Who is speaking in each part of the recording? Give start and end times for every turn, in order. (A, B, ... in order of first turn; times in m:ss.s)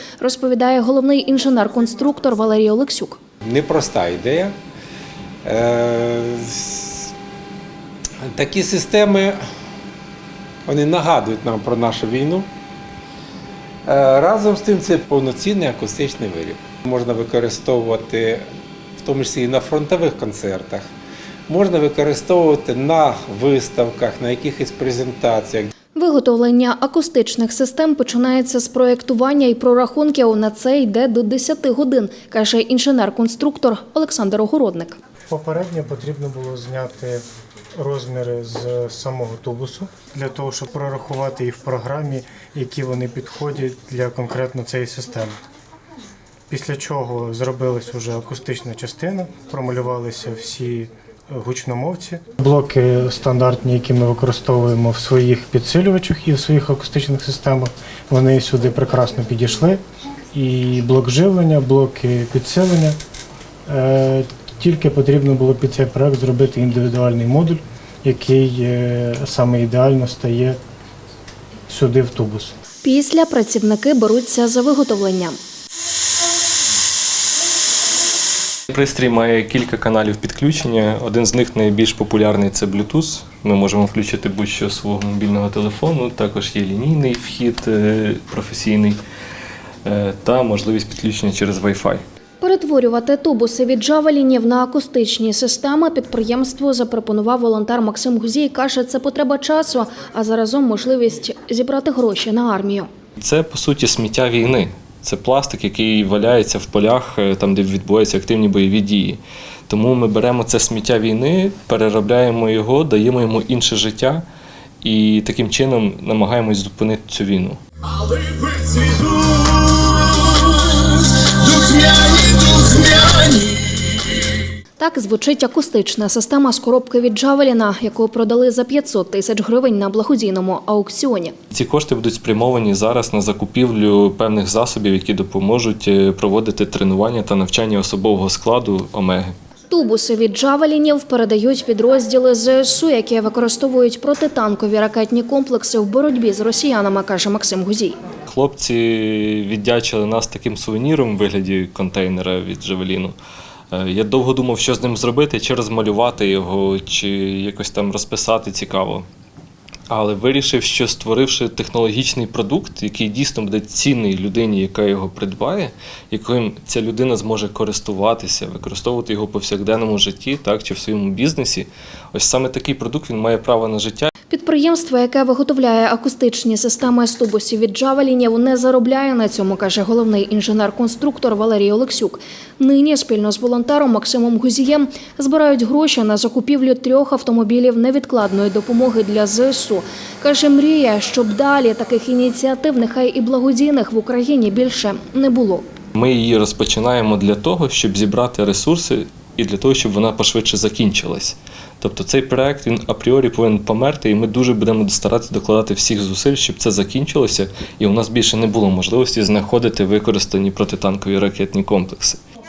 0:00.2-0:03.2 A
0:03.4-0:04.5 B
0:05.4-0:07.1 B
0:08.2-0:09.4 B
0:10.6-0:12.5 B
0:13.8-0:18.4 B
0:19.0-0:20.8 B
0:21.5-0:25.7 B
0:25.9-0:35.0 A
0:35.3-0:37.2 C
0:37.8-0:45.4 C
0:46.5-0:59.8 C
1:00.3-1:03.0 C
1:03.7-1:10.6 C
1:11.7-1:12.5 C
1:12.8-1:15.4 A
1:18.7-1:29.0 D
1:29.8-1:32.0 D
1:32.4-1:42.9 A
1:43.2-1:54.2 D
1:54.8-1:59.9 D
2:01.4-2:03.5 D
2:04.8-2:11.3 A
2:11.5-2:19.3 D
2:19.7-2:28.0 A
2:28.2-2:33.2 D
2:33.7-2:39.0 D
2:39.9-2:54.1 D
2:54.3-3:15.6 A
3:15.9-3:32.2 D